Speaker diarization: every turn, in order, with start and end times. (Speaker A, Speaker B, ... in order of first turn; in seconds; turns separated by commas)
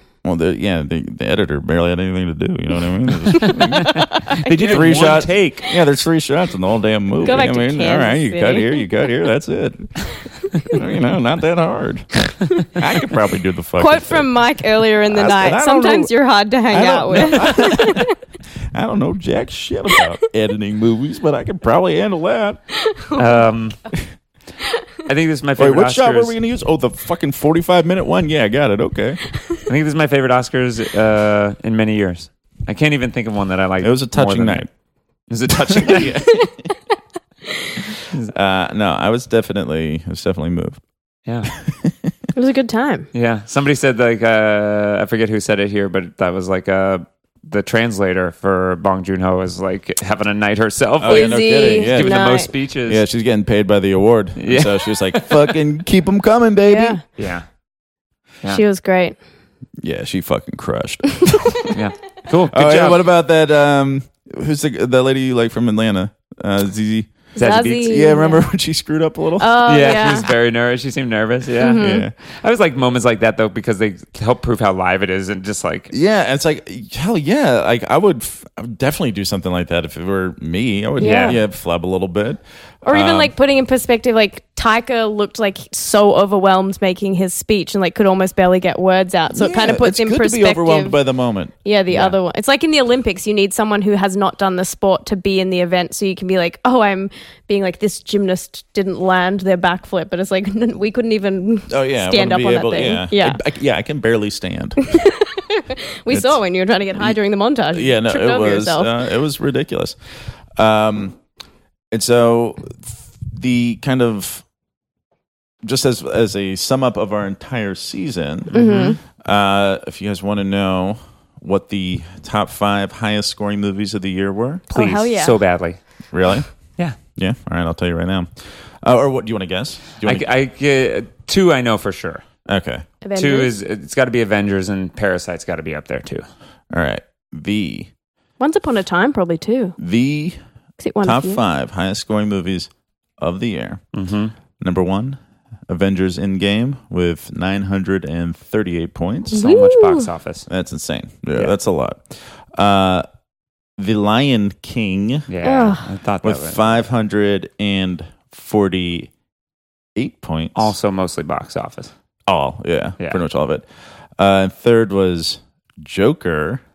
Speaker A: 0.2-3.9, Speaker B: 3.3-5.2, Speaker C: 3.4-5.8, Speaker A: 4.7-10.1, Speaker B: 7.2-8.8, Speaker A: 10.6-14.3, Speaker B: 13.8-18.1, Speaker A: 15.1-16.1, Speaker A: 16.7-18.1, Speaker A: 18.7-22.6, Speaker B: 22.8-23.5, Speaker C: 23.1-23.8, Speaker C: 25.0-26.3, Speaker A: 25.6-29.2, Speaker C: 29.6-34.6, Speaker A: 33.8-34.7, Speaker C: 35.3-36.2, Speaker A: 35.6-36.6, Speaker A: 38.3-40.8, Speaker C: 41.2-41.5, Speaker A: 41.4-42.1, Speaker B: 42.3-43.1, Speaker C: 43.1-53.0, Speaker A: 51.0-52.3, Speaker B: 51.1-52.5, Speaker A: 52.9-57.0, Speaker C: 54.4-55.5, Speaker B: 56.7-57.0, Speaker C: 57.2-57.5, Speaker B: 58.5-59.2, Speaker A: 59.8-61.7, Speaker B: 61.2-61.7, Speaker C: 61.7-63.0, Speaker A: 62.5-69.8, Speaker B: 67.3-68.4, Speaker C: 67.4-67.8, Speaker B: 69.4-70.3, Speaker C: 69.6-75.9, Speaker B: 71.6-72.0, Speaker A: 71.8-72.1, Speaker A: 75.9-83.3, Speaker B: 81.0-81.4, Speaker C: 81.0-81.4, Speaker B: 82.8-91.0, Speaker A: 89.3-92.1, Speaker B: 91.6-103.4, Speaker A: 101.7-104.8, Speaker B: 104.8-108.9, Speaker A: 106.1-106.4, Speaker A: 107.7-110.0, Speaker A: 110.5-111.2, Speaker A: 111.9-114.4, Speaker A: 115.6-124.6, Speaker B: 118.5-119.0, Speaker C: 118.5-118.9, Speaker B: 124.7-125.4, Speaker C: 124.7-125.8, Speaker A: 126.1-126.5, Speaker A: 127.1-128.3, Speaker A: 128.8-130.2, Speaker C: 130.0-132.2, Speaker A: 132.4-132.8, Speaker B: 133.0-133.5, Speaker C: 133.2-136.2, Speaker A: 136.7-137.9, Speaker B: 138.4-139.7, Speaker A: 139.8-140.4, Speaker B: 140.8-141.4, Speaker A: 141.0-143.8, Speaker C: 143.9-144.3, Speaker A: 144.6-149.4, Speaker B: 149.3-150.1, Speaker C: 149.3-150.5, Speaker A: 150.5-153.1, Speaker A: 153.8-155.3, Speaker C: 155.3-156.7, Speaker B: 155.4-155.8, Speaker A: 156.2-159.1, Speaker A: 159.9-160.7, Speaker C: 160.5-161.9, Speaker A: 162.3-163.7, Speaker A: 164.2-166.6